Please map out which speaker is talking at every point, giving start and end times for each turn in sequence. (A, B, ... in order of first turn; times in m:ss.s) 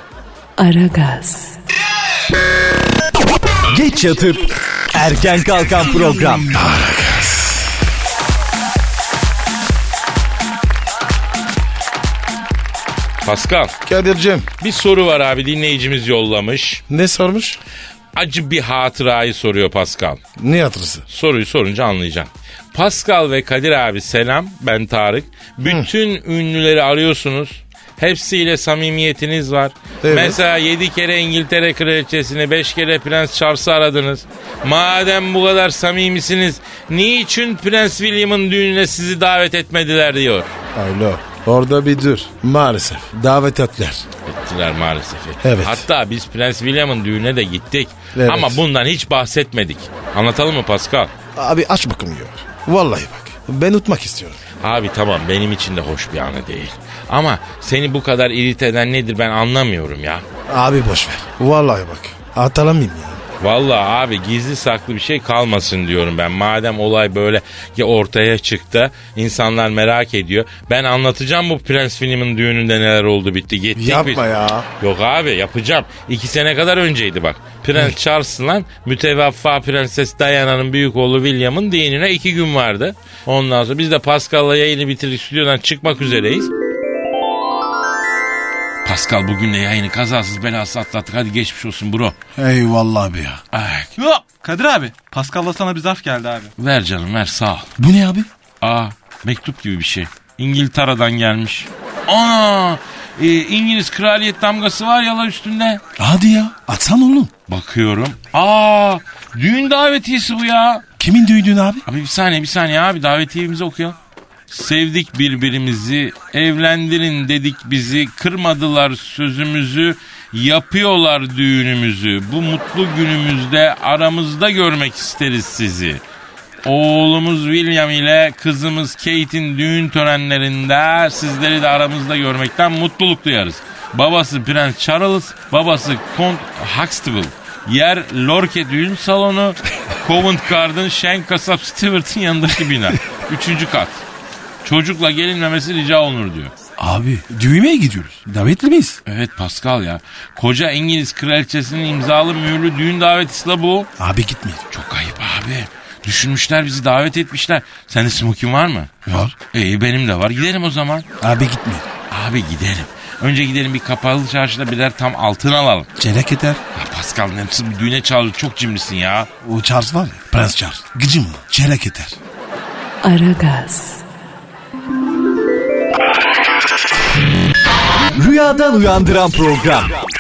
0:00.6-0:01.6 A
0:03.7-0:06.5 B
0:06.5-0:07.7 C
0:13.2-0:13.7 D
0:13.9-0:14.5 C
0:14.6-0:16.8 D
0:16.9-0:17.6 C
0:18.2-0:20.2 D
0:20.4-0:21.0 C
0:21.1-0:40.5 D
0:25.6-0:25.9 C
0:30.0-0:30.4 C
0:40.8-0:44.1 C
0:44.3-0:51.1 D
0:45.4-0:45.8 C
0:48.2-0:48.6 C
0:51.4-0:54.4 C
0:54.6-1:00.2 D
1:00.5-1:03.2 C
1:03.4-1:14.2 D
1:13.8-1:14.7 C
1:14.8-1:26.5 D
1:28.8-1:32.2 D
1:32.4-1:33.4 C
1:33.5-1:33.9 D
1:34.0-1:36.5 E
1:36.6-1:37.7 D
1:37.8-1:38.3 C
1:38.6-1:45.8 D
1:46.0-1:47.3 C
1:47.5-1:50.8 D
1:51.0-1:51.8 C
1:51.9-1:54.0 D
1:54.5-2:06.0 D
2:06.6-2:24.0 D
2:24.6-2:26.5 D
2:26.8-2:29.0 C
2:29.1-2:33.9 D
2:34.0-2:34.6 C
2:34.7-2:38.9 D
2:39.1-2:39.4 C
2:39.5-2:41.1 D
2:41.2-2:41.9 C
2:42.1-2:45.9 D
2:46.0-2:46.6 C
2:46.8-2:49.3 D
2:49.4-2:52.2 C
2:53.0-2:54.0 A
2:58.2-3:00.0 B